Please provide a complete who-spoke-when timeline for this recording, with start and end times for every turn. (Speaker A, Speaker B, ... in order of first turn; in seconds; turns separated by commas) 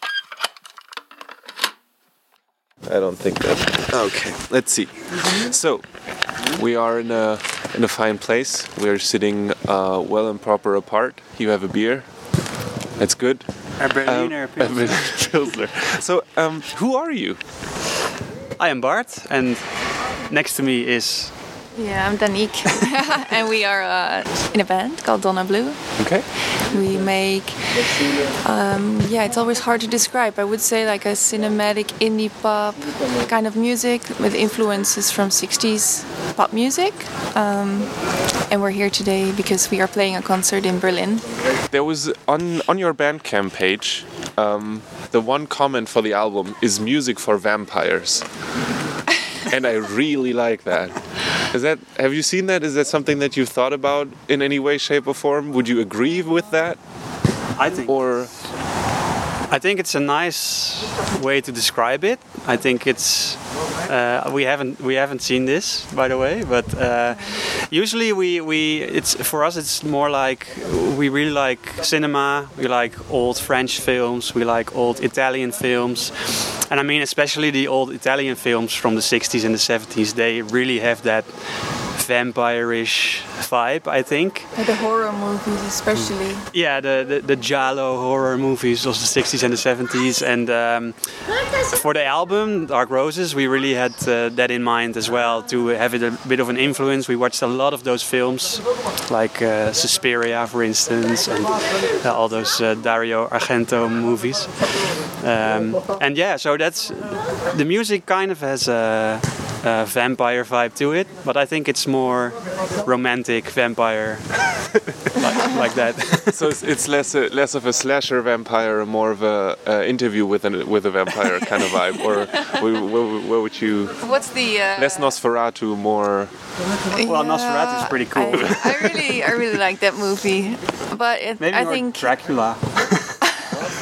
Speaker A: 2.8-5.9, Speaker A: 6.4-12.1, Speaker A: 13.0-17.4, Speaker B: 13.8-15.3, Speaker B: 18.6-21.3, Speaker C: 21.7-25.9, Speaker A: 26.0-26.2, Speaker C: 26.5-41.2, Speaker A: 41.7-48.3, Speaker A: 49.4-56.8, Speaker B: 57.5-58.4, Speaker A: 57.8-58.3, Speaker B: 59.5-84.5, Speaker C: 84.5-86.5, Speaker B: 86.5-116.5, Speaker A: 116.3-124.1, Speaker C: 122.3-122.6, Speaker C: 124.0-125.1, Speaker A: 124.8-126.3, Speaker C: 126.9-132.1, Speaker B: 126.9-128.9, Speaker B: 131.4-133.3